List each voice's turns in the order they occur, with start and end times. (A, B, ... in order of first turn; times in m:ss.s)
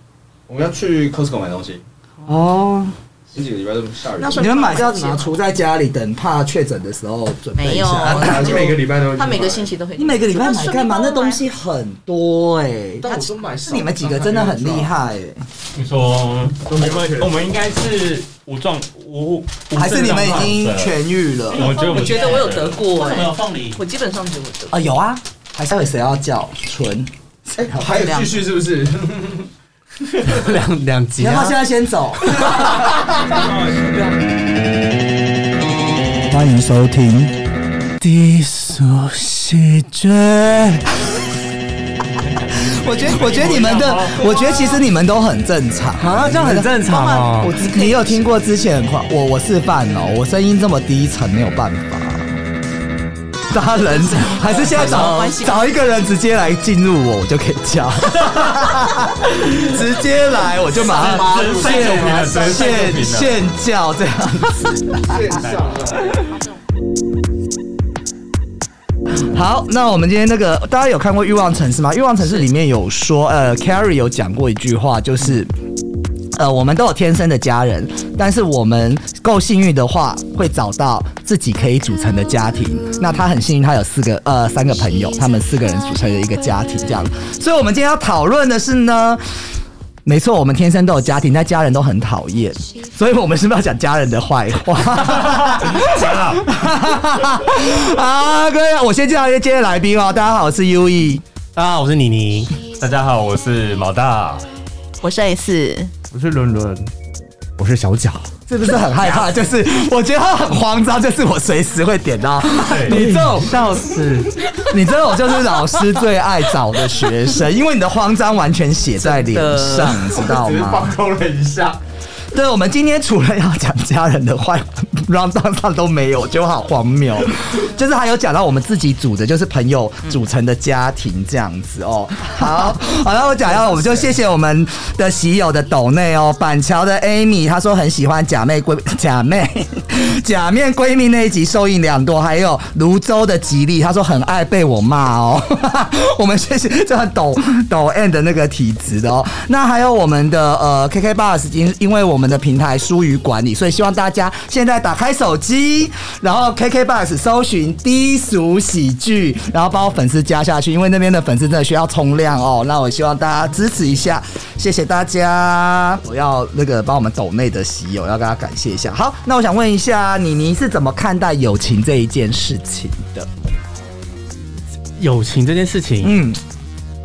0:00.5-0:01.8 A
0:02.3-0:02.9 B
0:03.3-0:04.4 A
0:04.1-0:05.3 C
0:04.3-0:08.8 B
0:07.5-0:11.4 C
0:08.1-0:09.7 A
0:10.0-0:15.4 B
0:13.0-0:14.9 A
0:15.7-0:21.0 D
0:16.7-0:17.3 A
0:19.7-0:21.7 B
0:21.5-0:23.6 D
0:21.6-0:24.8 C
0:24.7-0:27.9 B
0:27.7-0:29.3 A
0:27.8-0:28.4 C
0:30.2-0:31.6 E
0:31.2-0:32.9 B
0:32.2-0:32.7 E
0:36.3-0:37.4 B
0:38.0-0:40.8 E
0:42.5-0:52.4 B
0:43.0-0:44.3 D
0:46.0-0:47.6 E
0:46.8-0:48.3 C
0:53.5-1:05.3 B
0:54.5-0:55.6 C
1:00.9-1:02.2 A
1:00.9-1:03.4 D
1:05.2-1:05.9 A
1:05.3-1:06.0 D
1:09.2-1:15.5 B
1:16.3-1:29.2 B
1:30.0-1:41.2 B
1:35.1-1:36.5 D
1:41.5-1:42.5 E
1:42.8-1:44.5 D
1:45.0-1:45.9 C
1:46.1-1:46.9 F
1:47.6-1:48.3 A
1:48.5-1:53.8 B
1:52.6-1:53.0 D
1:52.9-1:53.4 A
1:52.9-1:54.3 F
1:54.6-2:00.9 B
1:59.0-2:00.2 C
2:00.2-2:01.8 A
2:02.3-2:53.3 B
2:55.0-2:56.2 E
2:56.0-2:56.4 B